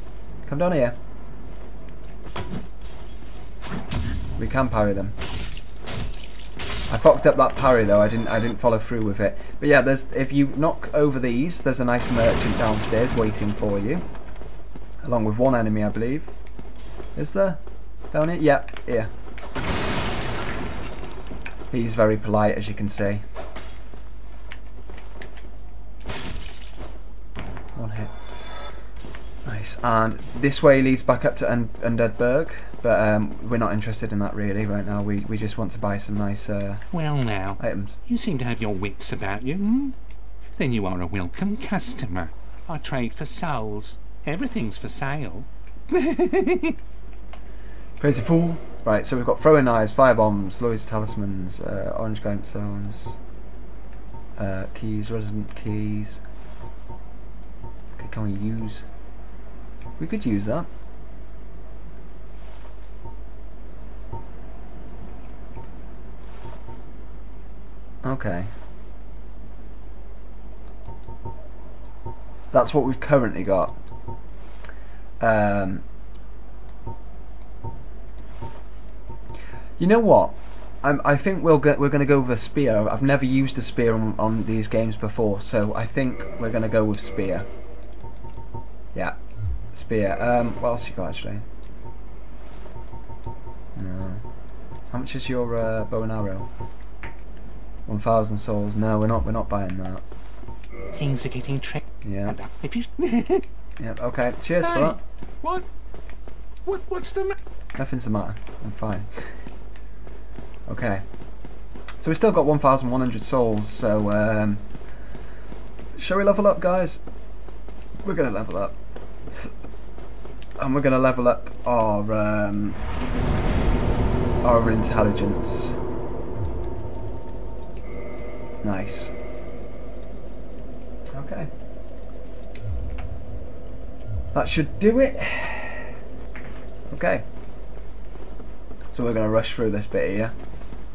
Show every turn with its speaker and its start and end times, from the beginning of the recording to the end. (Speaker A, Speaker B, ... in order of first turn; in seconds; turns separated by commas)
Speaker A: 0.5-0.9, Speaker A: 4.4-5.2, Speaker A: 6.9-14.0, Speaker A: 15.0-16.3, Speaker A: 17.1-19.1, Speaker A: 21.7-23.2, Speaker A: 27.8-28.1, Speaker A: 29.4-36.9, Speaker B: 36.9-40.0, Speaker A: 37.6-38.0, Speaker B: 40.6-46.8, Speaker A: 48.0-53.2, Speaker A: 54.4-56.2, Speaker A: 58.0-58.9, Speaker A: 60.0-60.7, Speaker A: 68.0-68.5, Speaker A: 72.5-73.8, Speaker A: 75.2-75.8, Speaker A: 79.8-87.5, Speaker A: 89.7-91.4, Speaker A: 93.8-94.2, Speaker A: 94.9-96.5, Speaker A: 97.9-100.0, Speaker B: 101.0-103.5, Speaker A: 102.0-102.4, Speaker A: 103.8-105.0, Speaker B: 104.6-105.7, Speaker B: 106.7-107.4, Speaker A: 107.8-109.3, Speaker A: 110.7-111.0, Speaker A: 112.0-114.7, Speaker A: 116.0-117.0, Speaker A: 118.0-118.8, Speaker A: 120.6-122.8, Speaker A: 124.4-125.8, Speaker A: 128.6-129.1, Speaker A: 131.1-131.5, Speaker A: 134.3-135.9, Speaker A: 136.9-137.2, Speaker A: 138.9-140.3